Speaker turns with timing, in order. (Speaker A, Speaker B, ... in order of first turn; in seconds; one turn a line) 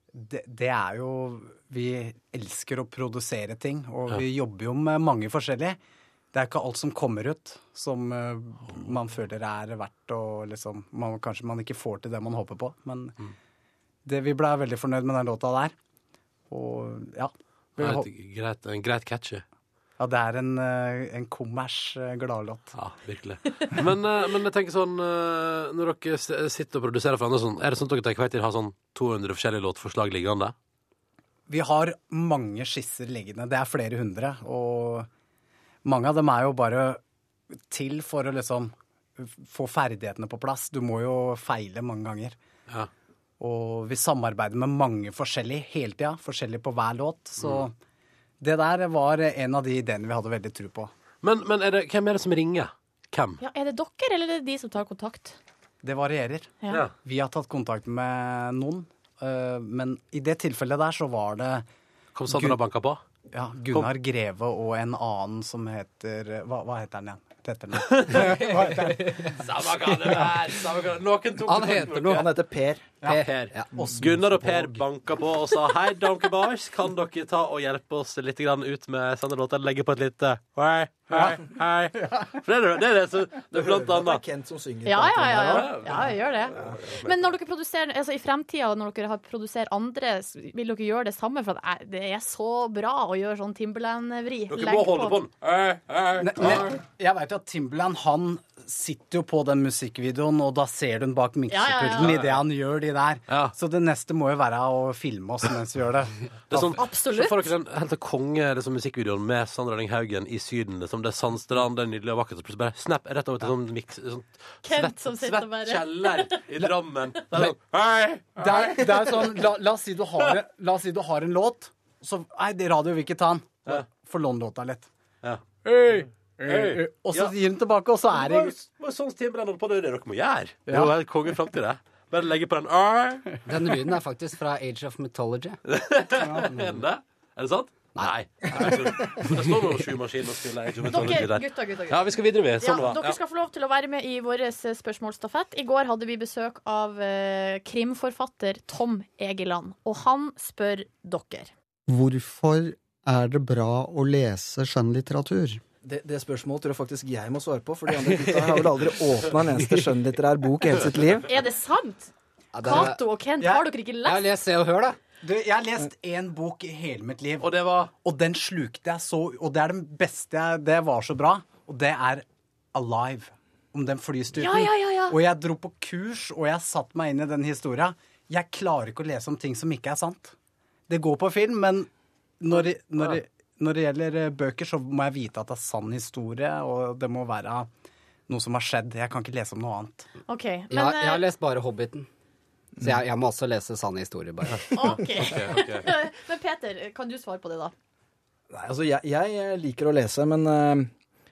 Speaker A: 0.1-5.8
Speaker A: 6.3-13.2
Speaker A: 14.1-15.7
Speaker A: 16.5-18.1
Speaker B: 17.8-19.4
Speaker A: 20.0-22.7
Speaker B: 22.7-30.5
Speaker A: 31.5-35.1
Speaker A: 35.8-37.0
Speaker A: 37.6-42.4
Speaker A: 43.4-47.7
Speaker A: 48.4-50.9
Speaker B: 51.2-53.4
Speaker C: 53.4-55.4
Speaker A: 55.8-61.6
Speaker B: 62.1-63.0
Speaker A: 62.3-62.6
Speaker A: 63.3-69.4
Speaker B: 67.8-68.4
Speaker B: 69.3-72.2
Speaker D: 71.4-72.3
Speaker E: 72.1-73.0
Speaker A: 73.0-74.7
Speaker D: 73.0-73.9
Speaker B: 73.1-84.2
Speaker A: 81.1-82.4
Speaker E: 83.5-86.0
Speaker C: 84.8-95.2
Speaker B: 85.4-87.3
Speaker B: 94.5-96.7
Speaker A: 96.2-106.8
Speaker C: 101.5-102.2
Speaker B: 102.0-102.4
Speaker B: 103.3-103.5
Speaker B: 106.5-119.0
Speaker C: 106.6-107.5
Speaker C: 114.6-116.4
Speaker A: 118.3-124.9
Speaker B: 125.2-125.6
Speaker A: 125.6-128.5
Speaker B: 126.4-127.3
Speaker B: 128.1-133.2
Speaker D: 133.4-135.6
Speaker B: 135.7-143.2
Speaker D: 136.4-136.8
Speaker C: 140.9-151.5
Speaker F: 151.9-155.6
Speaker E: 155.8-161.3
Speaker D: 158.3-158.6
Speaker C: 161.2-162.1
Speaker D: 162.5-163.0
Speaker C: 162.6-164.2
Speaker A: 162.6-163.6
Speaker D: 164.0-165.0
Speaker A: 165.2-180.3
Speaker B: 167.4-167.9
Speaker C: 174.3-175.2
Speaker A: 180.9-181.9
Speaker A: 182.4-187.7
Speaker A: 188.3-190.1
Speaker C: 190.3-191.2
Speaker D: 190.7-192.1
Speaker D: 192.8-195.0
Speaker C: 194.7-197.7
Speaker B: 194.8-195.9
Speaker E: 198.5-200.9